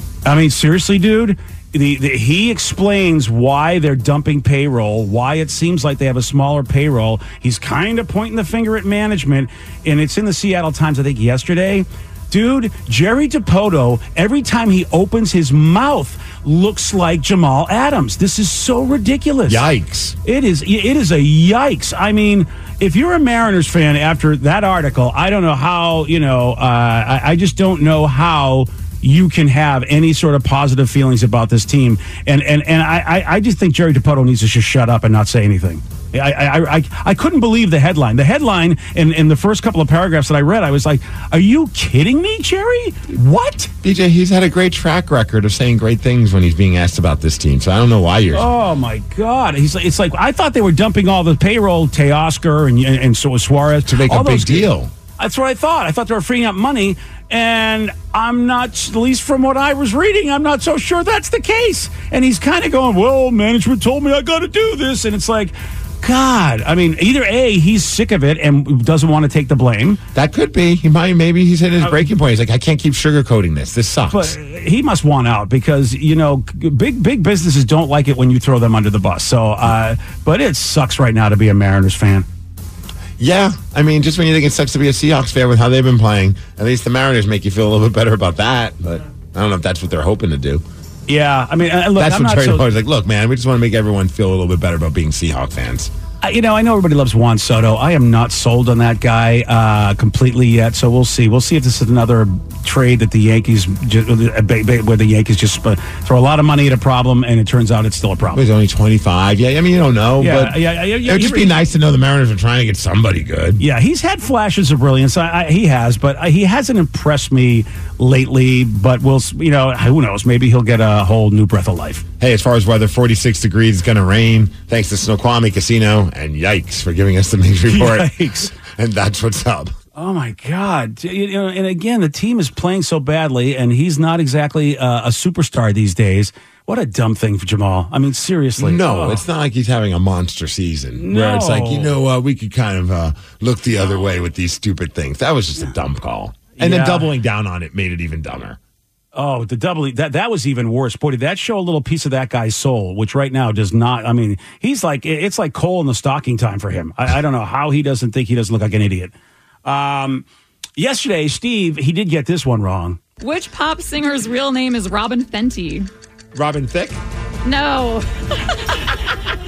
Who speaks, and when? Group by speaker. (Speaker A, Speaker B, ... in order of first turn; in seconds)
Speaker A: 0.3-19.6, 20.2-43.7, 48.3-70.0, 74.1-82.3, 91.1-92.6, 96.2-108.4, 110.2-111.6, 113.6-122.0, 127.7-128.5, 130.0-139.2, 141.0-141.9, 146.6-147.1, 149.1-159.1, 159.7-160.2, 160.8-163.0
Speaker B: 19.5-20.2, 43.8-48.5, 53.9-54.9, 70.2-74.3, 83.2-90.6, 92.0-95.9, 108.3-113.6, 122.2-129.7, 138.6-148.6, 166.3-167.0
Speaker C: 163.2-165.9, 167.4-169.0